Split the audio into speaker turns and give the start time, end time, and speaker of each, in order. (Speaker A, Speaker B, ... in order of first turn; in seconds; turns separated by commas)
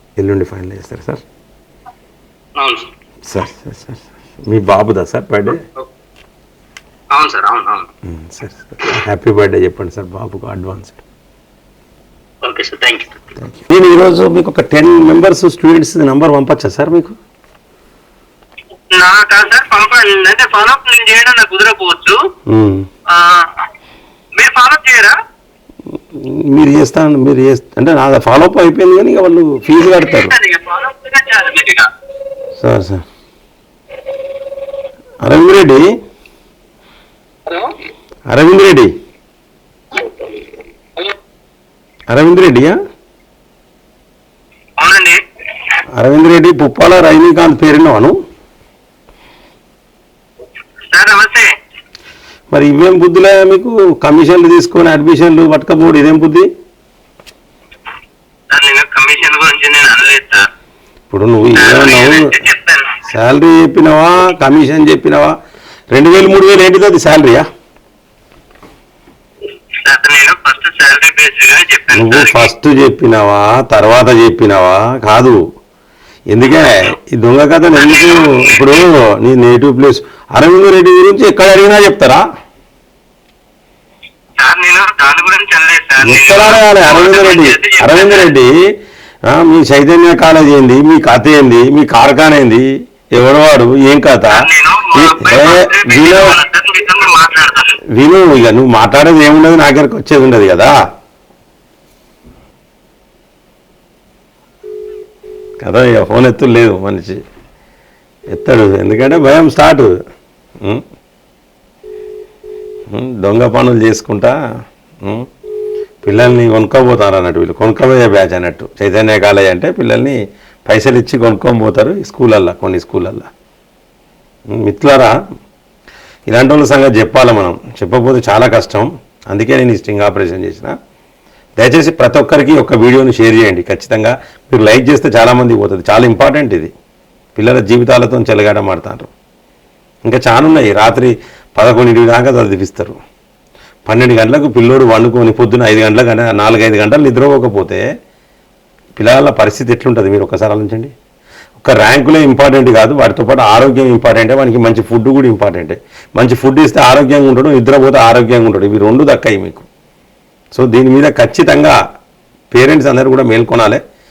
Speaker A: 0.2-1.2, Speaker B: 2.6-2.9, Speaker A: 3.3-5.6, Speaker B: 7.2-7.9, Speaker A: 8.1-11.0, Speaker B: 12.4-13.1, Speaker A: 13.4-17.2, Speaker B: 18.9-22.2, Speaker A: 22.5-22.9, Speaker B: 23.1-23.5, Speaker B: 24.4-25.1, Speaker A: 25.9-30.4, Speaker B: 29.9-31.9, Speaker A: 32.6-33.0, Speaker A: 35.2-35.9, Speaker B: 37.5-37.7, Speaker A: 38.3-38.9, Speaker B: 40.0-40.3, Speaker A: 42.1-42.8, Speaker B: 44.8-45.2, Speaker A: 45.9-48.2, Speaker B: 50.9-51.5, Speaker A: 52.5-56.5, Speaker B: 58.5-60.5, Speaker A: 61.1-62.4, Speaker B: 61.6-62.9, Speaker A: 63.1-65.3, Speaker A: 65.9-67.5, Speaker B: 69.8-72.5, Speaker A: 71.9-75.4, Speaker A: 76.3-82.2, Speaker B: 77.7-78.8, Speaker B: 84.4-88.3, Speaker A: 86.0-88.6, Speaker A: 89.3-96.4, Speaker B: 94.3-97.8, Speaker A: 97.9-100.8, Speaker A: 105.6-107.2, Speaker A: 108.3-109.9, Speaker A: 112.9-114.4, Speaker A: 115.0-115.3, Speaker A: 116.0-123.3, Speaker A: 124.5-125.1, Speaker A: 126.3-130.8, Speaker A: 131.6-136.7, Speaker A: 137.4-139.1, Speaker A: 140.1-143.0, Speaker A: 143.9-147.8, Speaker A: 149.0-150.9, Speaker A: 151.6-159.7, Speaker A: 160.6-161.8, Speaker A: 162.5-163.8